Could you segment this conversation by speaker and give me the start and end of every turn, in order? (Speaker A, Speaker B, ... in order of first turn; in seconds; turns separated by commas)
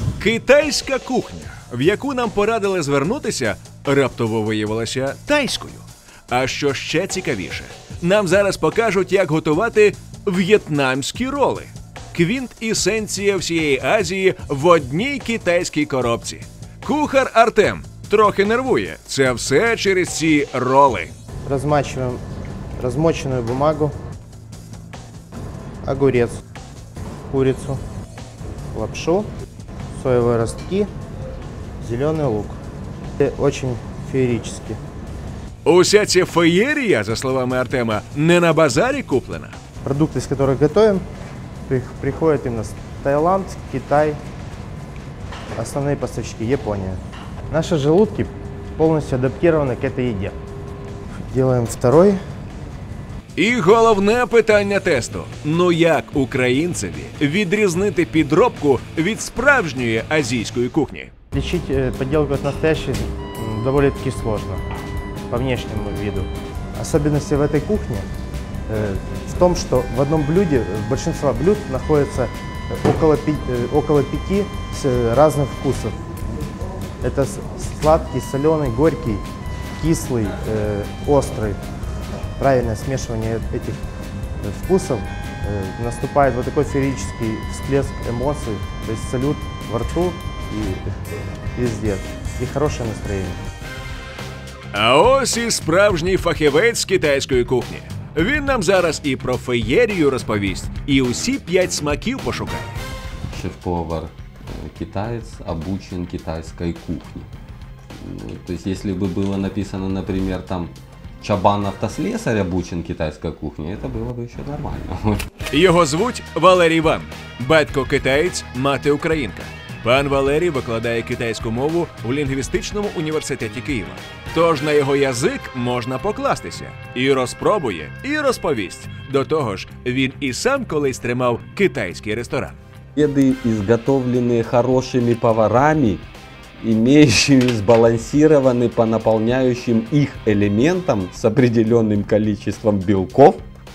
Speaker A: 0.2-21.1, Speaker B: 21.4-22.2, Speaker B: 22.8-23.9, Speaker B: 25.8-26.4, Speaker B: 27.3-27.8, Speaker B: 28.7-29.3, Speaker B: 29.9-30.9, Speaker B: 31.8-32.6, Speaker B: 33.2-34.8, Speaker A: 35.6-39.6, Speaker B: 39.8-41.0, Speaker B: 41.7-44.2, Speaker B: 45.5-47.0, Speaker B: 47.5-50.3, Speaker B: 51.3-52.2, Speaker A: 53.4-61.1, Speaker B: 61.3-64.6, Speaker B: 65.3-68.0, Speaker B: 68.7-76.0, Speaker B: 77.0-79.2, Speaker B: 79.8-81.6, Speaker B: 82.4-83.8, Speaker B: 84.4-90.8, Speaker B: 91.5-93.4, Speaker A: 94.7-102.8, Speaker C: 103.3-107.3, Speaker C: 108.0-115.2, Speaker A: 115.5-132.6, Speaker C: 132.9-136.0, Speaker C: 136.6-143.4